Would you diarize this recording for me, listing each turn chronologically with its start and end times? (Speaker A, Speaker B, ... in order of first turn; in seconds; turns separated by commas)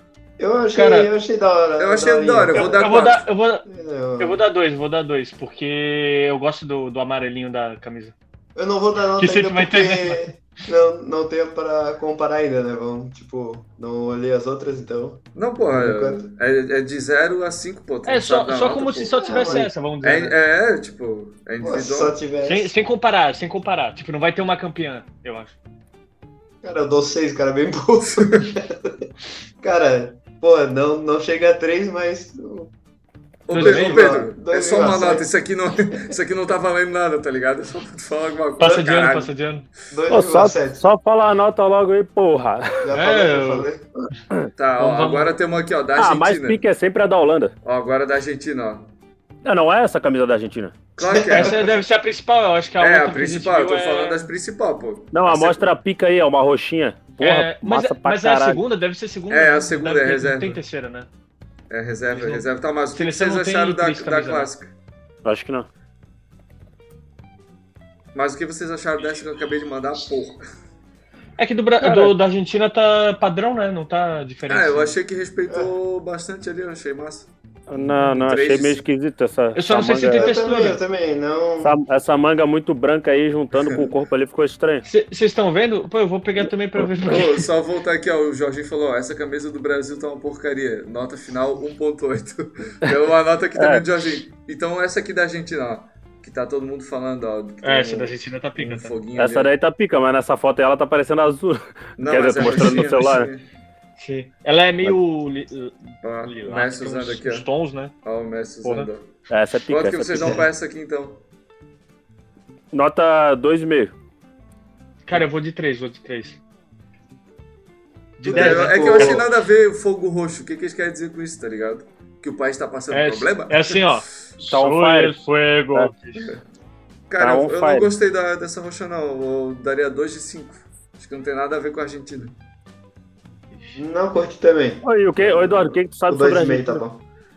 Speaker A: 0.4-2.9, Speaker B: 0.7-1.1, Speaker C: 1.8-3.3, Speaker B: 2.5-3.6, Speaker A: 3.6-4.4, Speaker B: 4.2-8.1, Speaker A: 8.5-16.2, Speaker B: 9.2-10.2, Speaker C: 15.3-22.2, Speaker B: 18.1-20.3, Speaker A: 19.1-19.7, Speaker A: 21.6-22.7, Speaker B: 22.4-25.5, Speaker A: 26.6-28.9, Speaker C: 28.2-28.4, Speaker A: 29.6-32.7, Speaker C: 33.5-39.3, Speaker B: 33.5-34.1, Speaker A: 33.5-35.3, Speaker B: 38.6-39.6, Speaker A: 39.9-40.8, Speaker D: 40.1-42.8, Speaker A: 42.8-43.9, Speaker B: 42.9-43.7, Speaker C: 44.6-46.6, Speaker B: 44.8-45.3, Speaker D: 46.0-47.5, Speaker C: 47.6-48.9, Speaker D: 49.4-50.8, Speaker C: 51.0-51.8, Speaker A: 51.0-51.7, Speaker B: 51.3-54.3, Speaker C: 52.8-55.7, Speaker D: 55.1-58.6, Speaker B: 57.2-61.1, Speaker C: 59.3-60.6, Speaker C: 61.7-64.7, Speaker B: 62.1-62.4, Speaker B: 62.9-64.5, Speaker D: 65.2-65.7, Speaker C: 68.1-70.4, Speaker B: 71.4-74.9, Speaker C: 74.5-77.3, Speaker D: 77.7-80.3, Speaker C: 78.0-78.8, Speaker B: 79.5-80.8, Speaker A: 80.1-81.8, Speaker D: 81.6-84.8, Speaker B: 84.8-87.5, Speaker C: 87.0-99.5, Speaker D: 93.5-93.8, Speaker B: 97.6-98.9, Speaker D: 99.1-103.3, Speaker C: 102.0-103.4, Speaker B: 102.4-102.9, Speaker B: 104.0-107.9, Speaker C: 106.0-107.5, Speaker C: 108.0-109.0, Speaker B: 108.6-108.9, Speaker D: 109.3-110.4, Speaker C: 109.7-111.2, Speaker D: 112.7-113.9, Speaker B: 115.0-116.4, Speaker B: 118.2-119.2, Speaker A: 118.2-119.2, Speaker C: 118.2-124.0, Speaker B: 122.9-126.3, Speaker D: 124.5-125.2, Speaker C: 127.1-132.3, Speaker D: 127.2-127.9, Speaker A: 133.7-137.0, Speaker D: 134.8-136.8, Speaker C: 135.3-135.6